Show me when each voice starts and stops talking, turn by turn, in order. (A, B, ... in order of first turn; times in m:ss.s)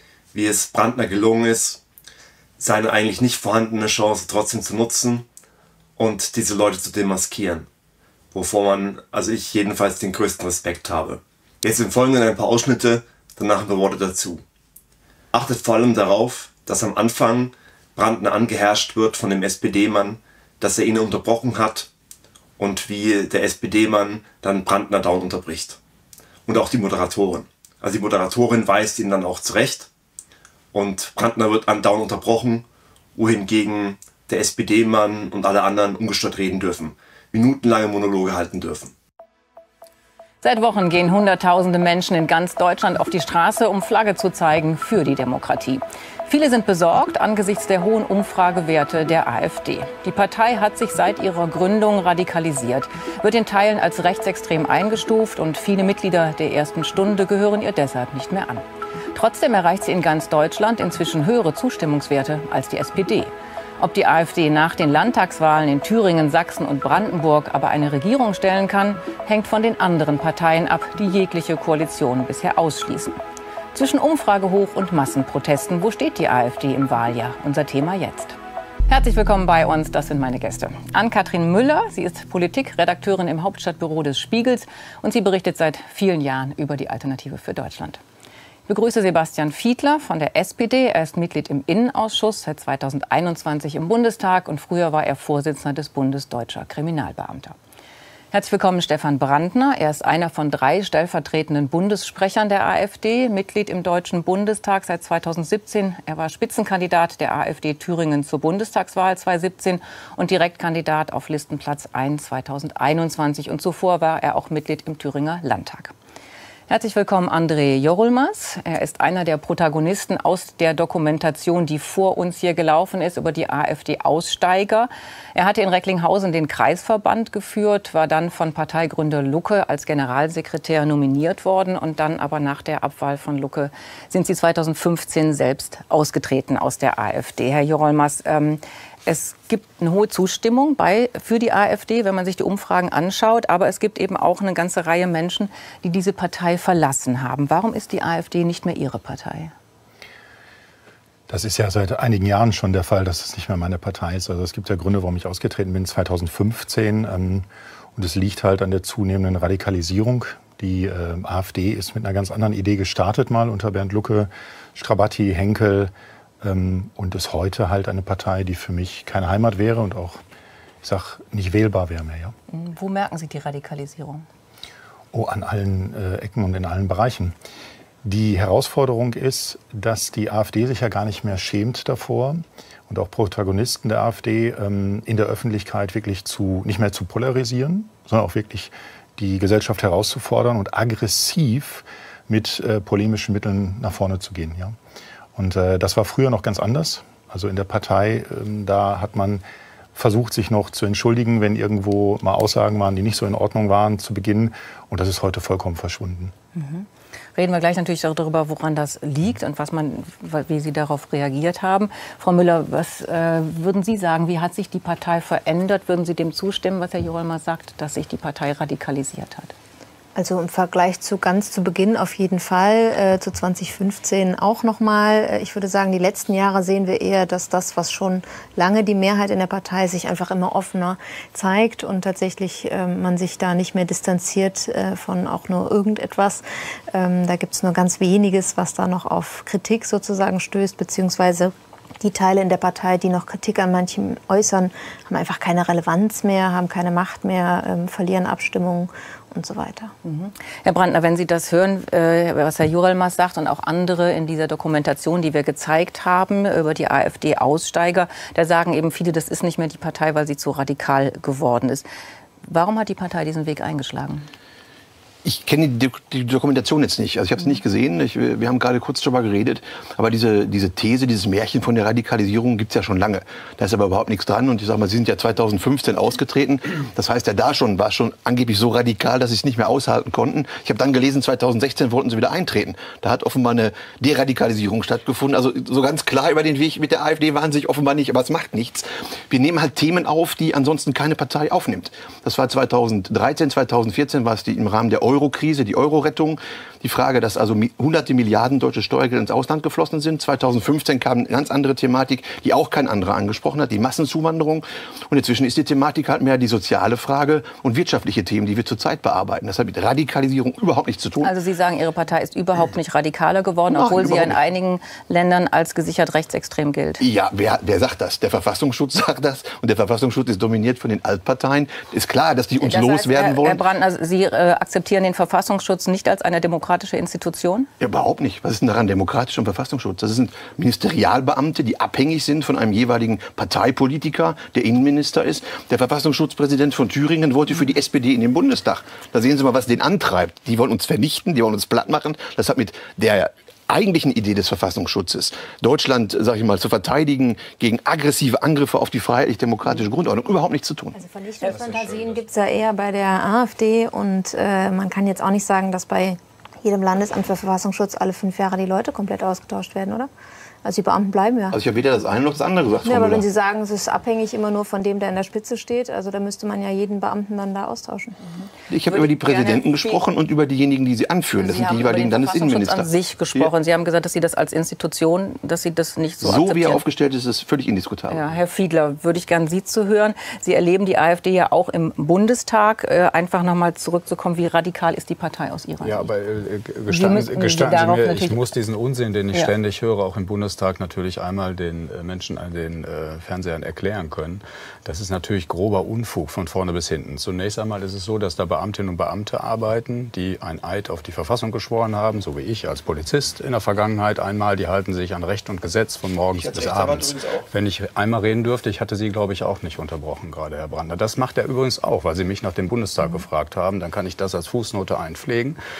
0:00.3-0:01.8 A
0:02.6-0:05.2 A
0:06.0-0:07.7 A
0:08.3-0:14.4 A
0:15.3-0:21.9 A
0:22.6-0:25.8 A
0:26.4-0:29.9 A
0:30.7-0:32.6 A
0:33.2-0:38.9 A
0:40.4-1:13.1 B
1:13.7-1:18.4 B
1:18.9-1:28.0 B
1:28.7-1:37.6 B
1:38.3-1:55.9 B
1:56.7-2:29.5 B
2:31.3-2:50.2 C
2:50.8-2:52.3 C
2:52.5-2:54.2 B
2:55.1-2:57.4 C
2:58.0-3:14.8 C
3:15.3-3:19.4 C
3:19.9-3:26.3 C
3:26.5-3:39.5 B
3:40.2-4:09.9 D
4:10.0-4:21.9 B
4:22.4-4:24.3 B
4:25.2-5:11.3 E
5:11.2-5:17.0 B
5:13.7-5:14.4 E
5:17.0-5:23.6 E
5:22.6-5:27.7 B
5:27.8-5:51.0 E
5:50.9-6:00.1 D
6:00.6-6:01.6 D
6:01.5-6:03.2 E
6:02.8-6:08.2 D
6:08.4-6:10.0 B
6:08.7-6:13.5 E
6:11.4-6:16.8 B
6:16.2-6:18.3 E
6:18.1-6:26.1 B
6:25.8-6:55.6 F
6:26.9-6:28.5 B
6:46.3-6:47.5 E